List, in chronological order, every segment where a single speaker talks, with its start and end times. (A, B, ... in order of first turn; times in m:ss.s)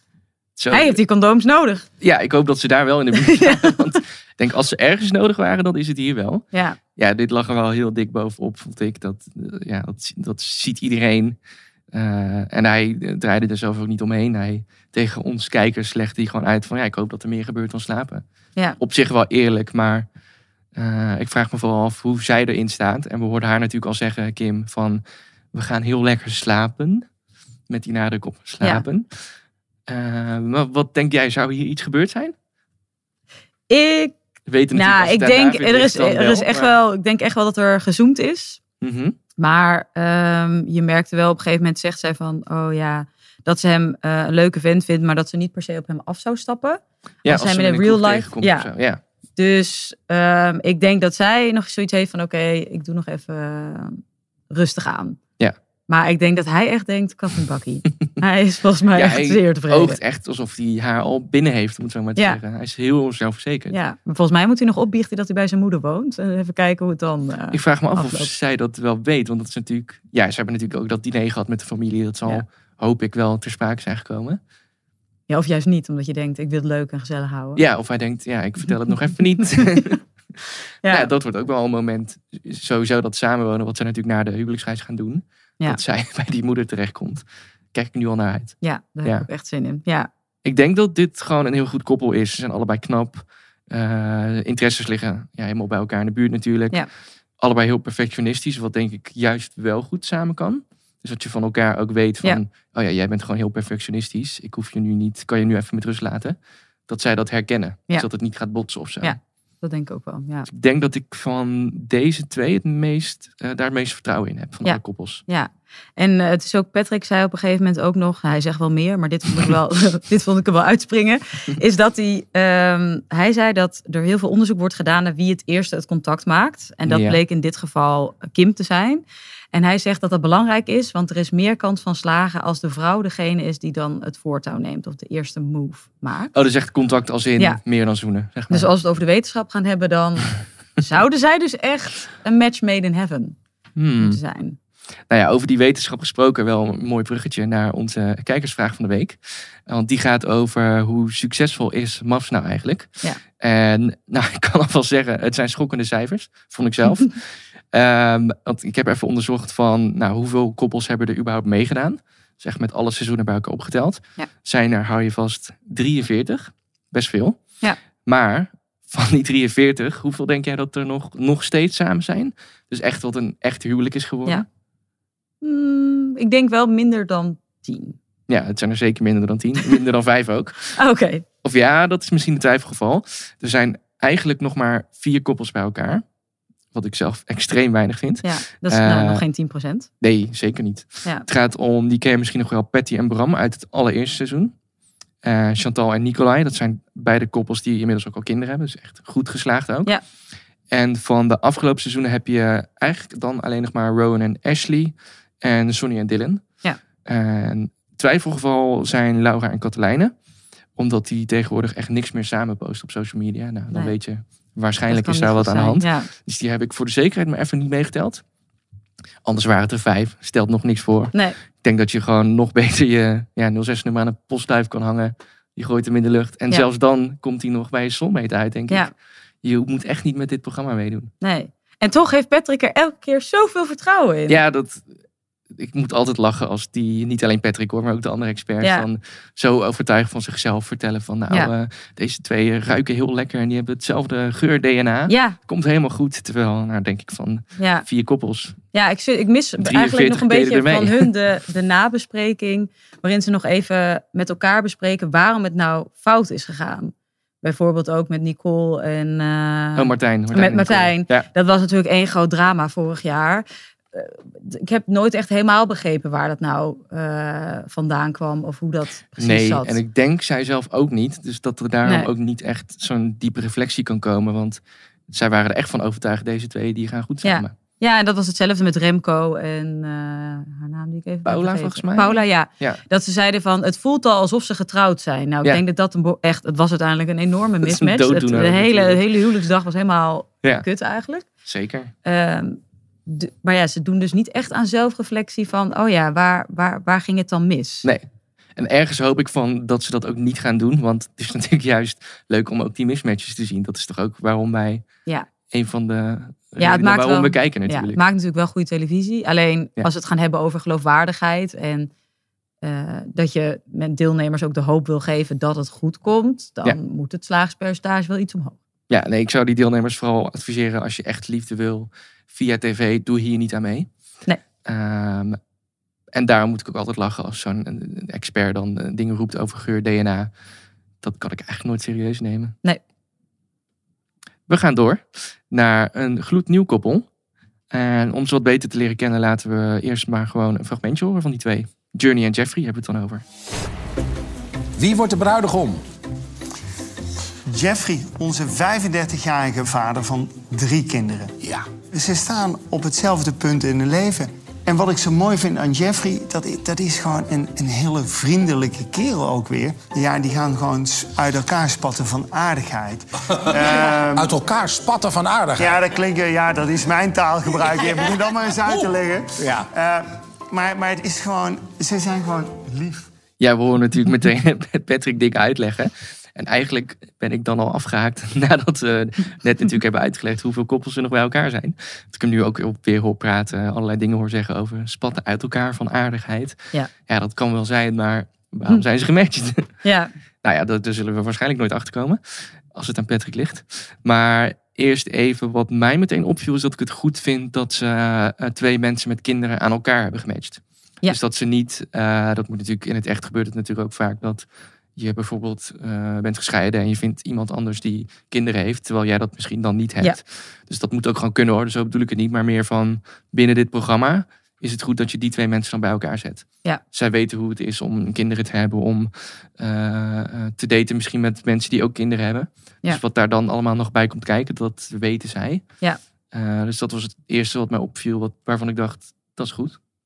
0:00.6-0:01.0 A
0:00.7-0:01.8 B
0:02.0-0:06.4 A
0:03.2-0:03.8 B
0:06.5-0:06.8 B
0:07.0-0:11.4 A
0:11.9-0:18.2 A
0:18.8-0:20.1 A
0:20.8-0:25.0 A
0:25.5-0:27.0 A
0:27.7-0:29.1 A
0:29.9-0:32.3 A
0:33.7-0:34.2 B
0:34.5-0:36.7 A
0:34.7-0:38.6 B
0:38.8-0:39.2 A
0:39.4-0:48.7 B
0:47.2-0:49.0 A
0:49.4-0:55.2 B
0:55.9-1:00.0 B
0:58.9-1:03.8 A
1:03.7-1:08.3 B
1:07.5-1:14.4 A
1:15.3-1:17.6 B
1:17.6-1:20.0 A
1:20.9-1:29.3 A
1:28.6-1:30.1 B
1:30.4-1:36.8 A
1:37.4-1:46.4 A
1:46.9-1:49.2 A
1:49.0-1:50.5 B
1:50.5-1:55.2 A
1:54.6-2:16.3 B
2:06.9-2:07.2 A
2:16.3-2:18.7 A
2:18.5-2:23.4 B
2:23.8-2:24.2 A
2:24.0-2:24.6 B
2:25.1-2:37.2 A
2:37.7-2:47.4 A
2:48.1-2:54.4 A
2:55.4-2:58.0 B
2:58.3-3:00.7 A
3:00.8-3:01.2 B
3:01.4-3:06.0 A
3:06.7-3:09.2 A
3:08.2-3:09.9 B
3:10.0-3:14.5 A
3:15.2-3:19.9 A
3:20.7-3:26.4 A
3:27.0-3:30.1 A
3:30.8-3:38.2 A
3:34.9-3:36.1 B
3:39.2-3:48.9 A
3:49.4-3:51.1 A
3:51.2-3:54.4 B
3:54.3-3:54.8 A
3:55.6-4:08.6 A
4:05.1-4:05.4 B
4:07.6-4:07.8 B
4:08.7-4:29.8 B
4:09.6-4:11.1 A
4:19.8-4:21.3 A
4:29.2-4:34.6 A
4:35.1-4:37.5 A
4:37.2-4:51.3 B
4:41.3-4:42.8 A
4:47.6-4:49.0 A
4:51.5-4:51.9 A
4:52.0-4:57.9 B
4:58.6-5:04.8 A
5:05.5-5:08.0 A
5:06.6-5:11.9 B
5:12.6-5:18.6 B
5:18.9-5:23.9 A
5:24.6-5:25.4 A
5:26.1-5:30.3 A
5:31.0-5:32.6 A
5:34.5-5:37.1 A
5:37.7-5:43.2 A
5:44.8-5:45.8 C
5:47.5-6:04.4 D
6:04.2-6:05.8 C
6:05.6-6:13.1 D
6:09.4-6:09.7 C
6:13.4-6:29.7 A
6:29.8-6:30.1 B
6:30.4-6:32.2 A
6:32.7-7:05.6 A
7:06.3-7:09.8 A